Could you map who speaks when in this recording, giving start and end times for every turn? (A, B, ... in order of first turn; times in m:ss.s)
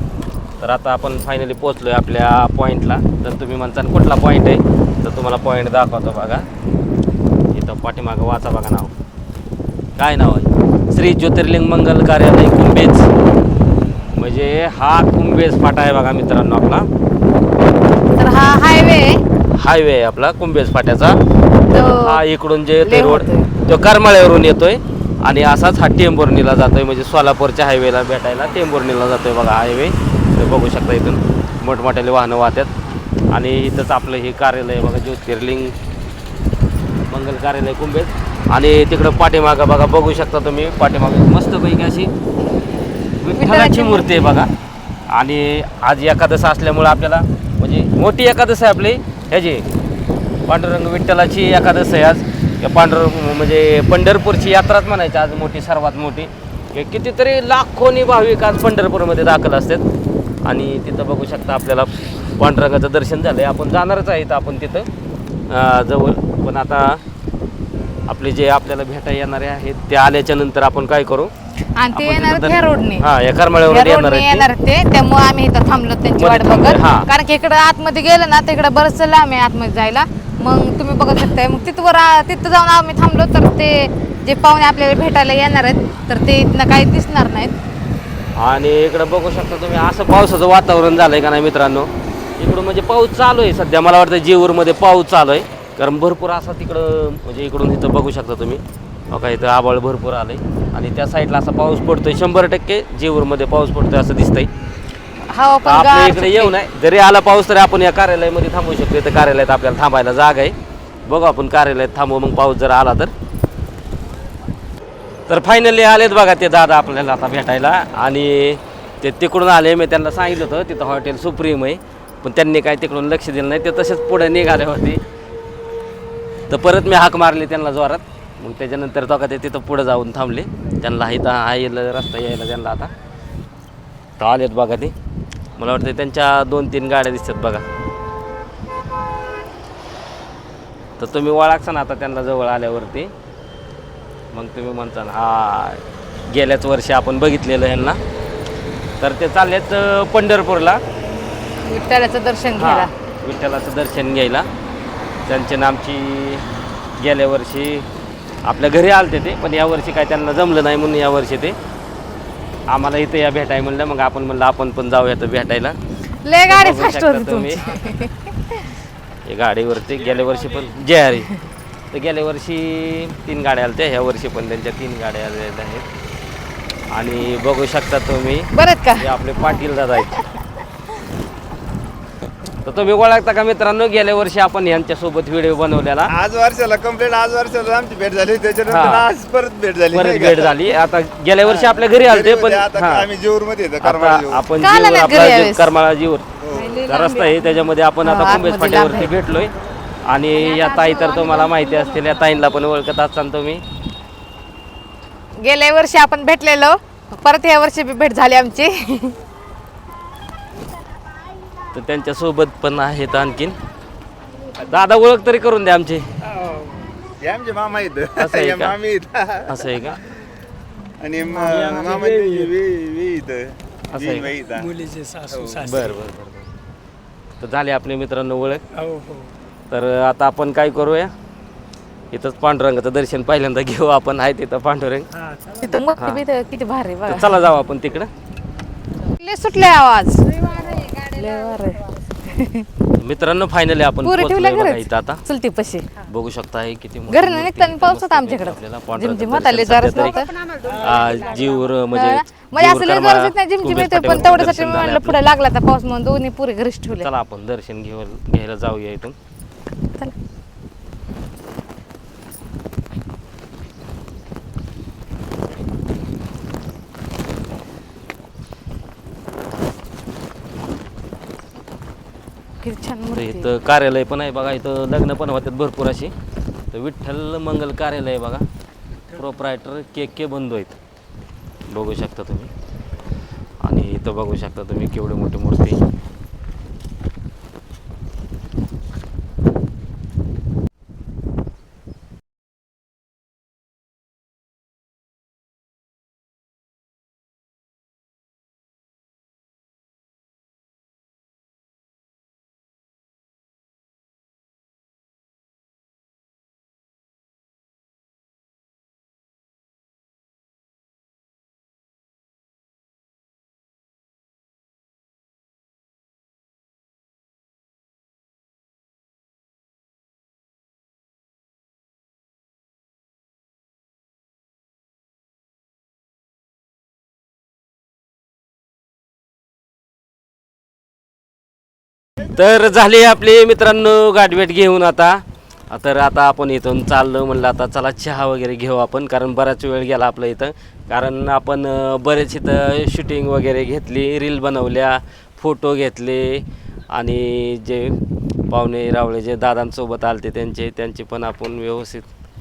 0:00.6-0:06.5 A
0:07.5-0:08.9 A
0:10.0-0:13.1 A
0:14.1-0:16.9 A
0:18.1-0:19.2 B
0:19.5-0:21.2 A
0:21.7-0:32.7 A
0:21.7-0:22.2 B
0:22.8-0:23.5 B
0:33.3-0:35.7 A
0:37.1-0:42.1 A
0:43.2-0:44.5 A
0:43.4-0:44.4 B
0:45.1-0:49.6 A
0:50.5-0:59.8 A
1:00.4-1:04.9 A
1:05.5-1:07.0 A
1:08.1-1:11.3 A
1:11.8-1:13.0 B
1:11.9-1:14.5 A
1:13.7-1:27.5 B
1:16.2-1:17.1 A
1:28.4-1:38.6 A
1:39.1-1:44.5 A
1:45.3-1:46.5 B
1:45.6-1:50.5 A
1:51.0-1:53.1 A
1:55.3-2:05.0 A
2:06.5-2:12.9 A
2:14.2-2:14.9 A
2:15.6-2:17.6 A
2:21.0-2:23.1 A
2:24.3-2:28.0 A
2:29.0-2:30.8 A
2:31.6-2:32.9 B
2:32.6-2:34.5 A
2:35.3-2:36.4 A
2:37.0-2:37.8 A
2:38.4-2:41.6 A
2:42.7-2:45.8 A
2:46.2-2:48.6 B
2:46.5-2:47.7 A
2:49.2-2:51.3 A
2:51.9-2:55.8 A
2:56.9-3:00.3 A
2:58.5-2:59.0 B
3:02.6-3:06.1 A
3:06.1-3:10.5 C
3:08.7-3:09.1 A
3:09.9-3:13.1 A
3:11.4-3:14.4 C
3:13.8-3:16.2 A
3:14.6-3:15.7 B
3:16.4-3:16.8 C
3:16.5-3:19.1 B
3:16.8-3:19.5 A
3:20.1-3:23.6 A
3:20.4-3:22.1 B
3:25.4-3:29.2 B
3:31.7-3:33.6 A
3:34.6-3:36.0 A
3:36.3-3:36.8 D
3:37.2-3:39.6 C
3:38.2-3:38.7 A
3:39.5-3:40.0 A
3:41.0-3:44.7 C
3:41.4-3:42.5 D
3:43.9-3:44.3 A
3:44.6-3:45.9 D
3:45.3-3:45.7 C
3:45.6-3:46.5 A
3:47.4-3:48.6 A
3:48.8-3:49.3 D
3:49.7-3:51.1 A
3:52.1-3:55.1 A
3:55.6-3:57.3 B
3:56.0-3:56.2 A
3:57.0-3:58.1 A
3:59.2-4:02.7 B
4:03.0-4:05.2 A
4:04.0-4:05.9 B
4:06.0-4:10.2 A
4:07.1-4:11.1 B
4:10.7-4:15.2 A
4:11.9-4:17.1 B
4:17.0-4:19.2 A
4:32.6-4:33.5 B
4:33.1-4:36.1 A
4:36.7-4:38.4 A
4:39.1-4:40.8 A
4:41.7-4:42.5 A
4:43.6-4:45.8 A
5:32.3-5:52.1 A